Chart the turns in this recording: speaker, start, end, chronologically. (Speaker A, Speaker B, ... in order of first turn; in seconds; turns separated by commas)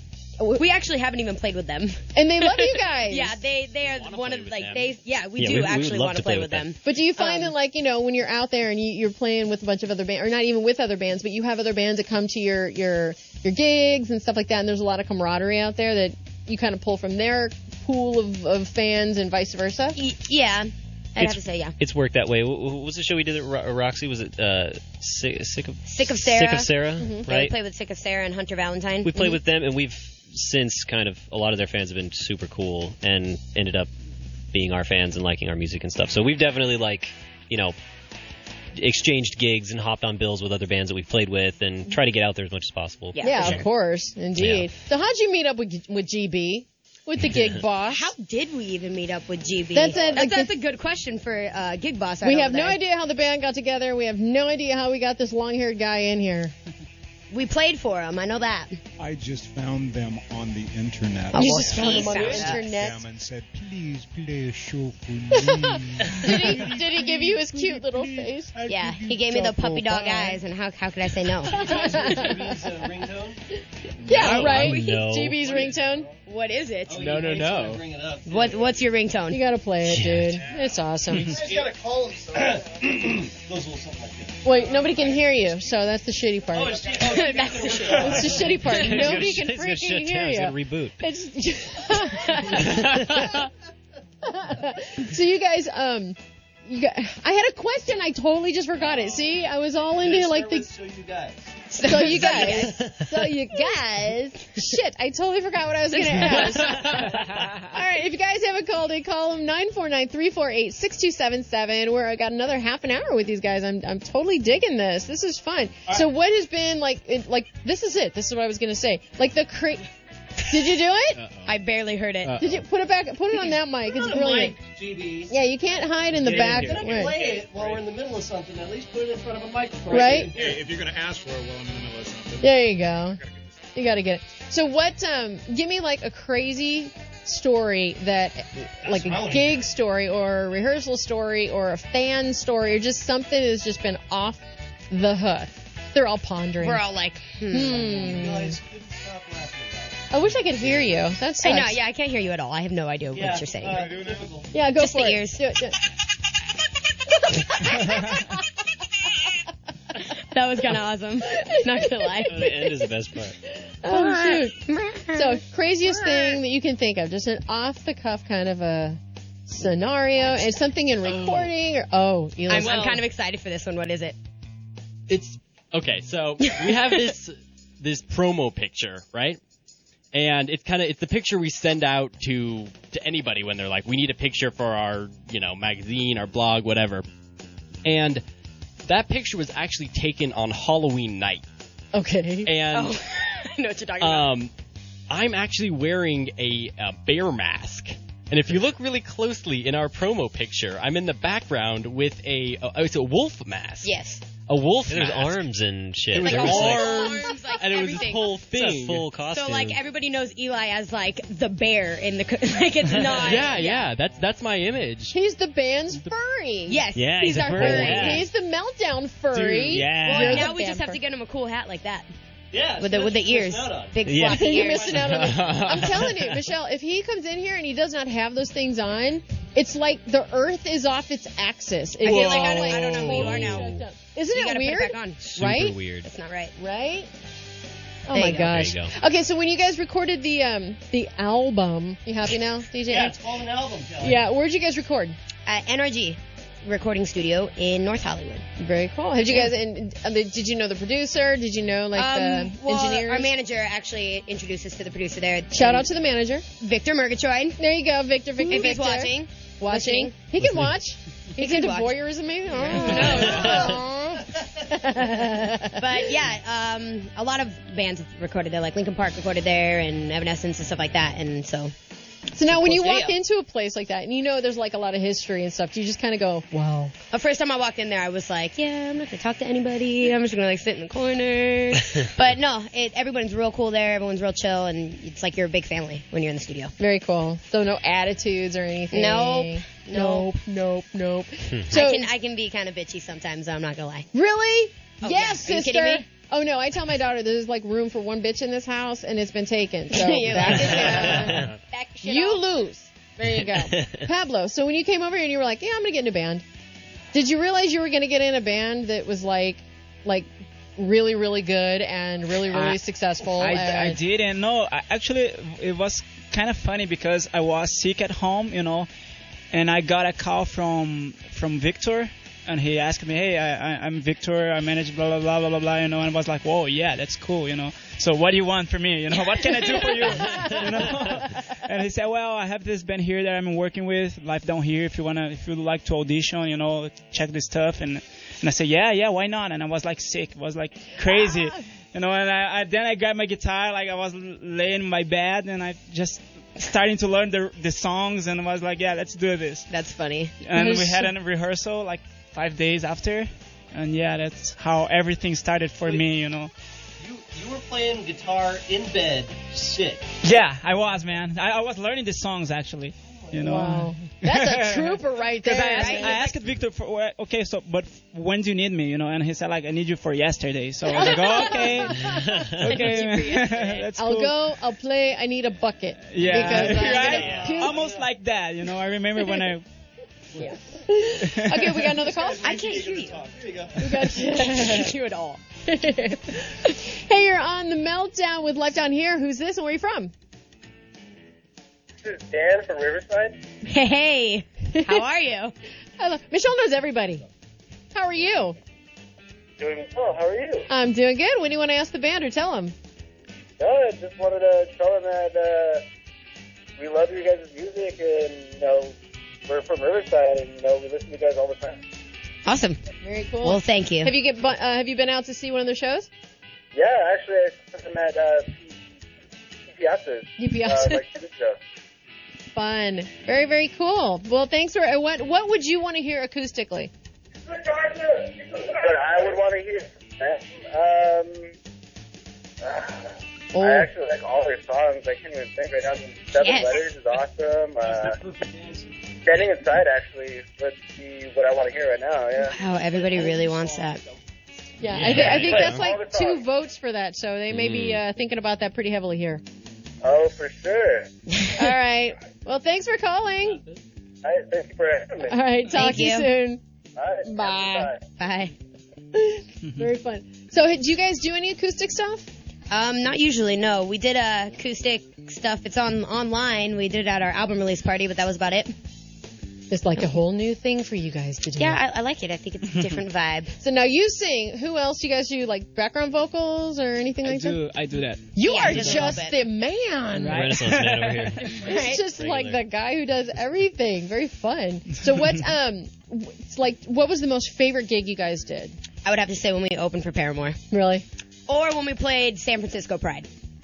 Speaker A: 0.6-7.5, Speaker B: 2.1-3.4, Speaker C: 3.8-5.0, Speaker D: 5.3-6.7, Speaker B: 6.8-20.0, Speaker A: 19.9-21.8, Speaker D: 21.2-27.6, Speaker A: 25.9-29.2, Speaker B: 27.0-27.3, Speaker D: 29.1-33.9, Speaker D: 34.5-37.8, Speaker D: 38.8-43.6, Speaker A: 43.1-43.6, Speaker B: 43.2-48.1, Speaker D: 44.4-44.7, Speaker A: 47.8-52.8, Speaker B: 49.7-50.5, Speaker B: 52.2-56.5, Speaker A: 57.3-58.8, Speaker E: 59.0-70.3, Speaker A: 61.3-62.7, Speaker B: 61.3-63.0, Speaker B: 65.3-68.5, Speaker A: 68.7-71.7, Speaker B: 71.5-72.5, Speaker F: 71.5-73.4, Speaker B: 74.1-76.1, Speaker D: 74.1-75.5, Speaker A: 74.1-75.0, Speaker F: 75.4-76.2, Speaker A: 76.3-77.1, Speaker F: 76.9-78.8, Speaker C: 76.9-77.8, Speaker A: 78.3-79.4, Speaker B: 79.3-81.4, Speaker D: 79.8-80.4, Speaker F: 81.2-85.4, Speaker B: 84.4-87.0, Speaker F: 86.5-88.8, Speaker A: 87.0-88.3, Speaker B: 87.9-93.5, Speaker D: 88.7-91.0, Speaker B: 94.2-100.7, Speaker F: 98.8-99.2, Speaker F: 100.0-101.5, Speaker A: 101.7-102.9, Speaker B: 101.8-119.8, Speaker A: 106.0-106.7, Speaker B: 120.5-121.2, Speaker C: 121.2-121.7, Speaker A: 121.5-122.4, Speaker C: 122.2-122.7, Speaker B: 122.4-124.6, Speaker F: 123.9-125.3, Speaker B: 125.3-127.2, Speaker F: 126.2-130.6, Speaker C: 126.3-127.8, Speaker B: 129.9-130.3, Speaker E: 130.3-132.6, Speaker B: 132.4-133.2, Speaker E: 133.1-133.5, Speaker B: 133.8-146.8, Speaker F: 138.8-139.6, Speaker A: 146.6-148.1, Speaker B: 147.5-148.6, Speaker F: 147.7-151.0, Speaker B: 150.1-151.8, Speaker A: 151.4-153.8, Speaker F: 153.1-154.6, Speaker E: 153.7-154.2, Speaker B: 154.5-155.8, Speaker A: 154.8-155.4, Speaker A: 160.2-162.5, Speaker B: 161.3-162.8, Speaker D: 162.3-163.4, Speaker B: 163.8-164.6, Speaker A: 163.9-166.4, Speaker B: 165.1-173.0, Speaker C: 171.1-171.5, Speaker A: 172.5-174.2, Speaker C: 172.6-173.0, Speaker C: 175.1-179.4, Speaker A: 176.4-177.0, Speaker C: 180.1-187.1, Speaker C: 187.8-188.2, Speaker C: 188.8-191.4, Speaker B: 191.9-192.5, Speaker C: 192.5-193.0, Speaker A: 192.7-194.3, Speaker C: 194.0-194.5, Speaker C: 195.1-203.9, Speaker A: 203.8-204.2, Speaker C: 204.5-205.5, Speaker D: 204.7-207.2, Speaker C: 206.1-209.2, Speaker A: 206.2-208.4, Speaker D: 208.3-209.8, Speaker A: 209.2-213.9, Speaker C: 213.0-215.2, Speaker B: 215.1-221.0, Speaker A: 216.7-218.1, Speaker D: 216.9-218.3, Speaker C: 217.3-218.2, Speaker C: 219.3-220.2, Speaker D: 219.7-220.3, Speaker A: 220.0-222.1, Speaker F: 222.5-224.0, Speaker A: 222.8-225.1, Speaker D: 224.0-224.5, Speaker B: 224.3-235.8, Speaker F: 224.6-225.2, Speaker C: 225.0-226.4, Speaker A: 232.0-235.2, Speaker C: 233.0-233.6, Speaker D: 233.1-233.5, Speaker D: 235.2-236.1, Speaker A: 236.0-236.6, Speaker B: 236.6-237.1, Speaker B: 238.1-243.2, Speaker A: 238.1-238.6, Speaker D: 238.4-238.9, Speaker F: 242.9-244.2, Speaker B: 244.0-245.2, Speaker A: 245.5-248.5, Speaker B: 248.6-253.3, Speaker A: 251.9-255.9, Speaker B: 255.5-256.4, Speaker A: 256.6-257.6, Speaker B: 257.6-266.1, Speaker A: 258.4-260.3, Speaker A: 261.4-262.0, Speaker A: 262.5-263.7, Speaker F: 263.3-263.8, Speaker A: 265.8-271.7, Speaker B: 272.4-276.9, Speaker A: 272.5-273.1, Speaker A: 277.1-286.7, Speaker B: 286.8-292.1, Speaker A: 288.9-290.3, Speaker A: 291.7-294.1, Speaker B: 294.1-301.5, Speaker A: 295.0-296.1, Speaker A: 299.9-302.4, Speaker D: 301.1-301.5, Speaker B: 302.0-306.4, Speaker D: 303.4-304.0, Speaker B: 307.1-314.0, Speaker G: 312.5-312.8, Speaker G: 313.3-318.9, Speaker G: 319.5-349.7, Speaker B: 329.8-330.6, Speaker A: 349.7-350.4, Speaker G: 350.4-356.5, Speaker B: 350.6-351.1, Speaker F: 357.0-360.0, Speaker G: 360.2-374.4, Speaker F: 363.1-363.6, Speaker B: 363.4-366.2, Speaker A: 365.6-366.4, Speaker B: 370.9-373.4, Speaker A: 372.6-373.9, Speaker B: 374.0-377.8, Speaker G: 376.1-379.6, Speaker F: 376.4-378.1, Speaker B: 380.4-382.6, Speaker G: 381.2-382.0, Speaker F: 382.1-384.2, Speaker A: 382.4-383.2, Speaker B: 383.8-384.9, Speaker A: 384.0-385.4, Speaker B: 385.7-390.1, Speaker H: 392.0-393.4, Speaker A: 393.6-395.5, Speaker B: 394.7-395.0, Speaker B: 396.0-397.2, Speaker B: 397.9-398.6, Speaker H: 399.6-400.7, Speaker B: 400.7-402.8, Speaker H: 403.6-405.8, Speaker H: 406.8-408.9, Speaker H: 409.5-411.8, Speaker A: 412.4-412.8, Speaker B: 413.0-416.1, Speaker A: 413.4-414.1, Speaker H: 416.7-418.6, Speaker H: 419.7-421.6, Speaker B: 420.4-421.0, Speaker B: 422.5-426.9, Speaker H: 427.5-431.5, Speaker H: 432.6-438.1, Speaker B: 433.5-433.9, Speaker A: 436.4-436.9, Speaker F: 437.8-438.9, Speaker H: 439.3-442.5, Speaker A: 442.4-444.0, Speaker F: 442.7-444.2, Speaker B: 444.8-449.4, Speaker C: 444.9-445.8, Speaker H: 445.3-446.4, Speaker D: 447.5-448.0, Speaker H: 450.0-451.1, Speaker A: 451.4-451.7, Speaker B: 451.6-453.6, Speaker H: 454.2-455.4, Speaker B: 455.3-456.6, Speaker A: 455.7-456.3, Speaker H: 457.0-458.0, Speaker B: 457.2-457.9, Speaker A: 458.2-458.5, Speaker B: 459.1-462.3, Speaker A: 462.7-468.7, Speaker B: 469.7-471.8, Speaker A: 471.6-473.5, Speaker B: 473.6-477.6, Speaker G: 477.2-479.1, Speaker B: 478.4-480.6, Speaker A: 478.4-479.4, Speaker G: 480.1-481.4, Speaker D: 480.3-482.6, Speaker A: 481.4-482.1, Speaker B: 481.6-488.8, Speaker A: 489.1-490.6, Speaker B: 490.7-491.0, Speaker A: 491.5-493.3